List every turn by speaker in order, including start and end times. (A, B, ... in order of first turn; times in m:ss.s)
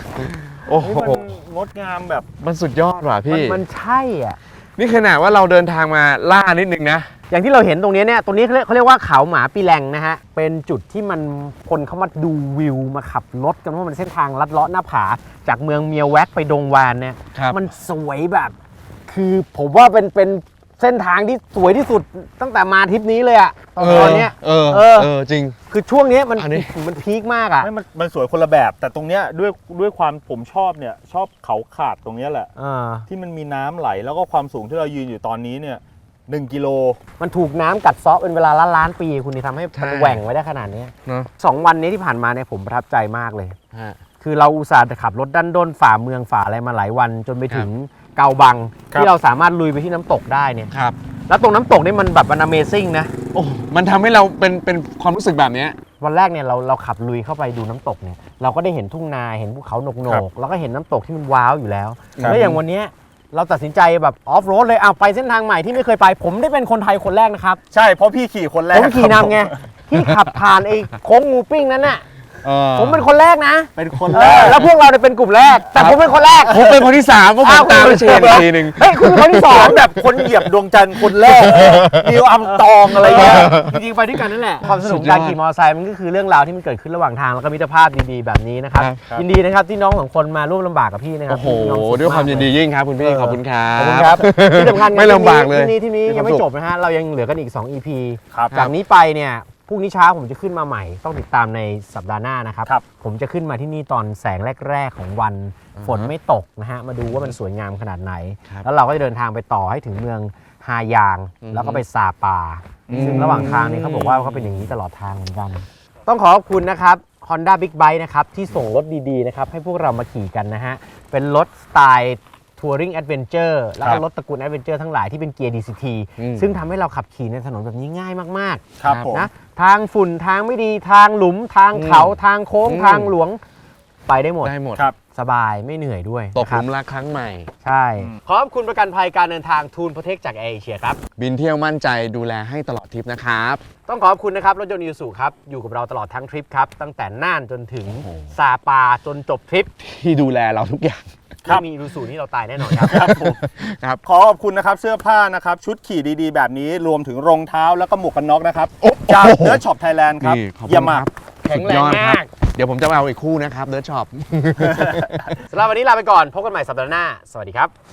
0:00.2-0:01.2 A
0:00.7-0:02.3 B
0:02.4-0:03.6 A
0:03.3-0:04.4 C
0:04.8-0:07.1 A
0:07.3-0:18.5 C
0:17.3-0:17.6 A
0:19.1-0:25.1 C
0:23.8-0:25.6 A
0:25.7-0:27.7 C
0:26.4-0:26.7 A
0:27.6-0:32.5 B
0:32.6-0:33.1 C
0:33.1-0:37.0 B
0:37.2-0:43.6 C
0:39.7-0:40.2 A
0:43.7-0:44.0 A
0:44.2-0:50.7 C
0:51.3-0:53.1 C
0:53.3-0:55.8 A
0:56.0-1:07.6 C
1:02.2-1:02.6 A
1:07.7-1:09.5 B
1:08.7-1:12.0 C
1:12.4-1:13.0 A
1:12.7-1:16.7 C
1:13.8-1:14.7 B
1:16.4-1:19.5 A
1:17.4-1:19.8 C
1:18.1-1:18.5 B
1:19.4-1:23.5 B
1:21.5-1:22.1 A
1:22.4-2:13.4 C
1:23.1-1:23.7 A
1:24.6-1:25.4 A
1:28.8-1:29.0 A
1:31.3-1:36.4 A
1:38.3-1:38.6 B
1:45.8-1:46.1 A
1:51.4-1:51.8 A
1:52.9-1:53.5 B
1:52.9-1:54.7 A
2:06.2-2:06.5 A
2:08.8-2:09.3 B
2:08.8-2:09.2 A
2:11.7-2:12.1 A
2:12.6-2:13.1 A
2:14.1-2:14.5 C
2:14.4-2:14.9 A
2:15.1-2:16.6 C
2:16.3-2:17.5 A
2:17.6-2:21.0 C
2:21.2-2:23.6 A
2:23.9-2:29.7 C
2:28.0-2:28.3 A
2:29.8-2:31.1 A
2:31.5-2:33.1 C
2:32.7-2:34.0 A
2:32.9-2:33.4 B
2:34.0-2:41.0 B
2:38.8-2:39.6 A
2:40.2-2:45.3 A
2:41.4-2:42.3 C
2:44.6-2:45.1 B
2:45.5-2:47.7 C